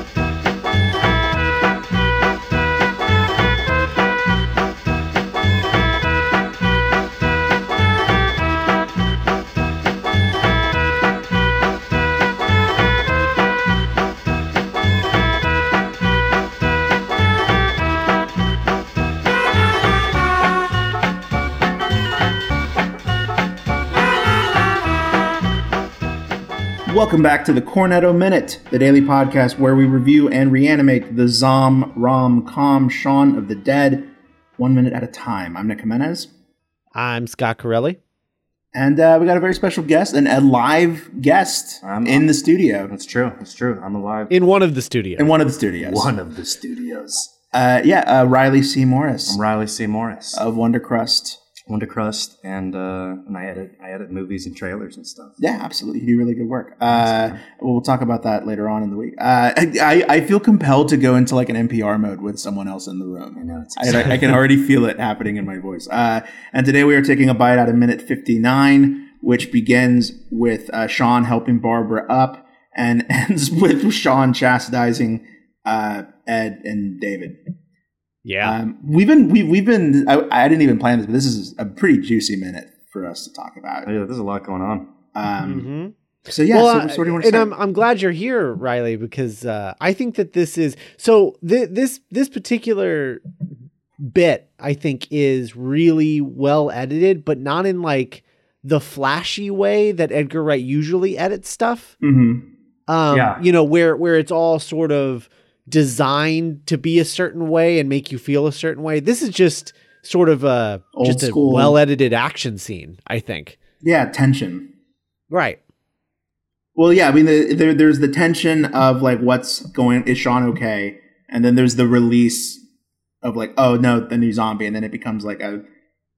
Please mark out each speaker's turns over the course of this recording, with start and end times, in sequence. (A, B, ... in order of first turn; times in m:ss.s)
0:26.8-0:36.3 A
0:36.9-0:38.0 B
0:38.7-0:42.9 A
0:41.8-0:42.3 C
0:42.9-0:44.3 C
0:44.3-0:45.3 B
0:45.2-0:46.1 A
0:45.8-0:47.3 C
0:47.5-0:49.4 A
0:49.3-0:50.4 C
0:50.3-0:51.4 A
0:51.7-0:55.4 C
0:55.4-1:17.4 A
0:56.9-0:57.4 C
1:03.4-1:04.4 C
1:18.2-1:18.6 B
1:18.4-1:23.9 A
1:23.8-1:24.9 C
1:25.1-1:25.7 A
1:25.4-1:25.9 B
1:26.3-1:27.5 A
1:26.5-1:33.2 B
1:34.0-1:41.9 B
1:42.0-1:42.4 A
1:42.9-1:53.6 B
1:43.1-1:43.4 C
1:50.9-1:51.8 A
1:53.8-1:54.7 A
1:55.3-1:55.6 B
1:56.8-2:02.6 A
2:03.2-2:05.6 A